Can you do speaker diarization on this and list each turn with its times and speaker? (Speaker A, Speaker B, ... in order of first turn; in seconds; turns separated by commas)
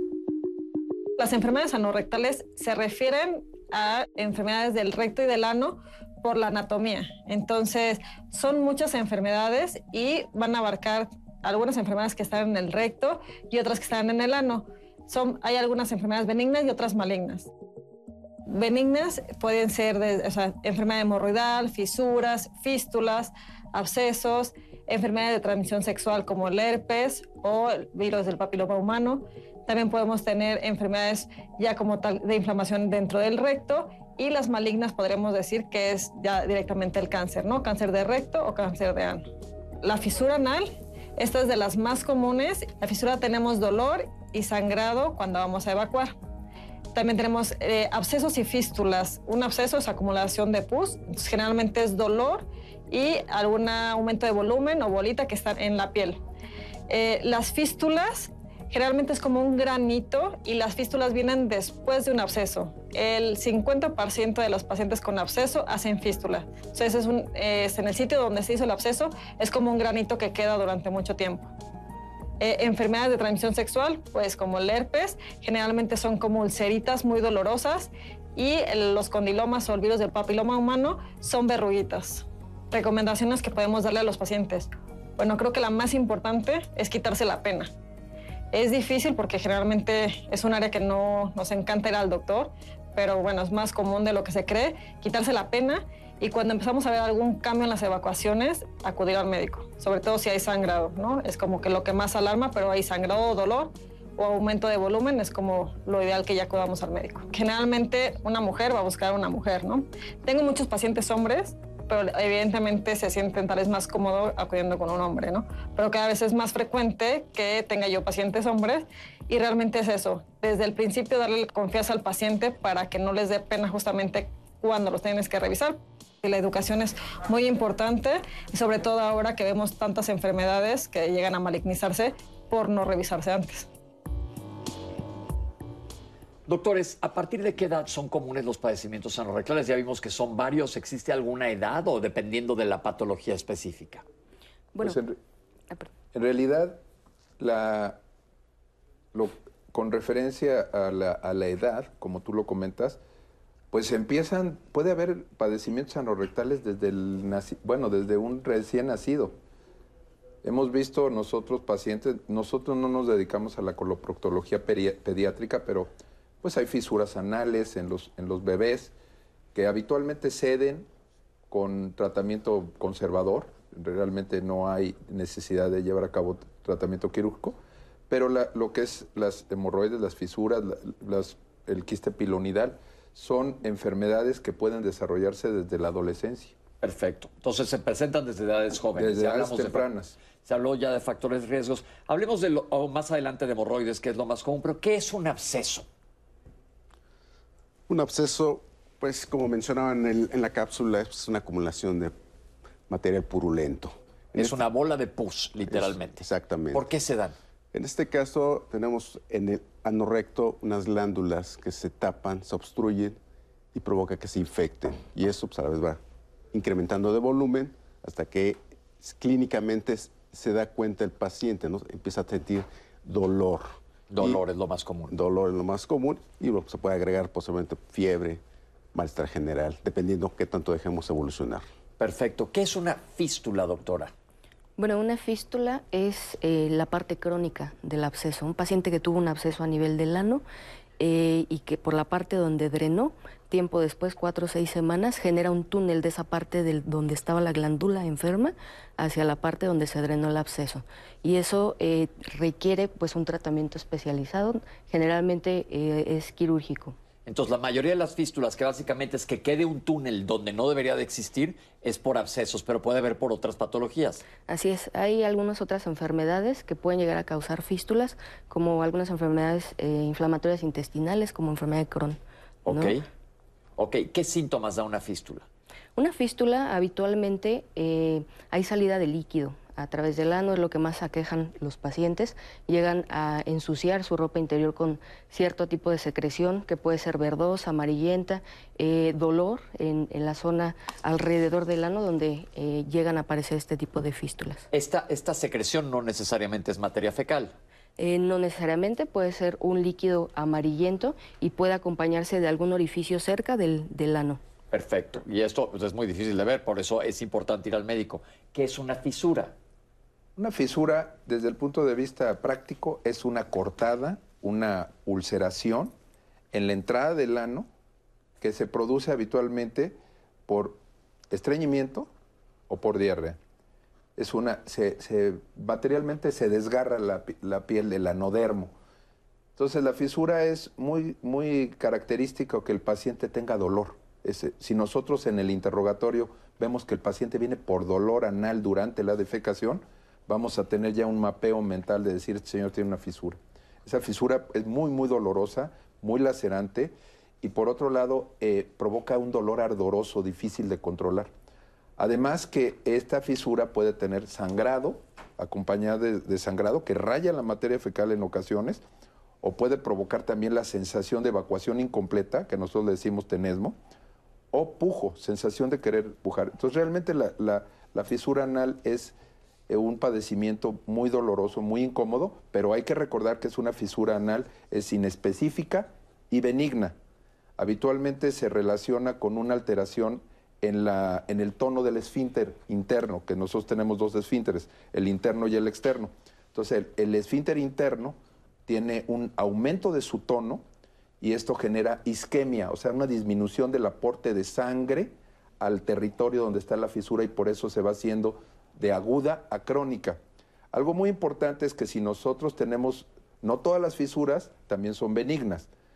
Speaker A: 1.2-17.5, Speaker A: 18.5-39.2, Speaker A: 39.8-46.1, Speaker A: 46.9-56.2, Speaker A: 56.9-71.5, Speaker A: 72.4-87.7, Speaker A: 88.5-133.7, Speaker B: 136.5-144.0, Speaker C: 144.7-145.0, Speaker D: 144.8-145.2, Speaker D: 146.1-146.8, Speaker D: 147.4-148.0, Speaker D: 149.1-153.0, Speaker D: 153.7-159.3, Speaker D: 160.4-165.9, Speaker D: 166.4-168.9, Speaker D: 169.5-170.9, Speaker D: 171.5-177.6, Speaker D: 178.1-186.6, Speaker B: 186.8-189.8, Speaker D: 188.9-190.2, Speaker B: 190.4-195.9, Speaker E: 197.9-202.1, Speaker E: 202.9-204.6, Speaker B: 204.3-207.3, Speaker E: 205.7-206.9, Speaker E: 207.7-213.2, Speaker E: 213.7-216.0, Speaker E: 216.5-224.4, Speaker B: 224.1-225.2, Speaker E: 225.1-228.4, Speaker E: 228.9-231.6, Speaker B: 232.0-234.1, Speaker C: 234.8-240.4, Speaker C: 241.0-257.0, Speaker B: 257.2-264.2, Speaker C: 264.4-273.0, Speaker B: 272.6-273.0, Speaker B: 273.8-275.5, Speaker C: 275.9-294.6, Speaker B: 294.7-297.5, Speaker C: 298.0-304.4, Speaker B: 304.7-309.6, Speaker D: 310.4-315.9, Speaker D: 316.5-317.7, Speaker D: 318.4-320.8, Speaker D: 321.3-322.1, Speaker D: 322.7-323.4, Speaker D: 324.1-328.7, Speaker D: 329.6-351.3, Speaker D: 352.0-358.8, Speaker D: 359.4-363.8, Speaker D: 364.5-369.1, Speaker D: 369.7-376.9, Speaker D: 377.6-390.6, Speaker D: 391.2-400.2, Speaker D: 400.7-405.7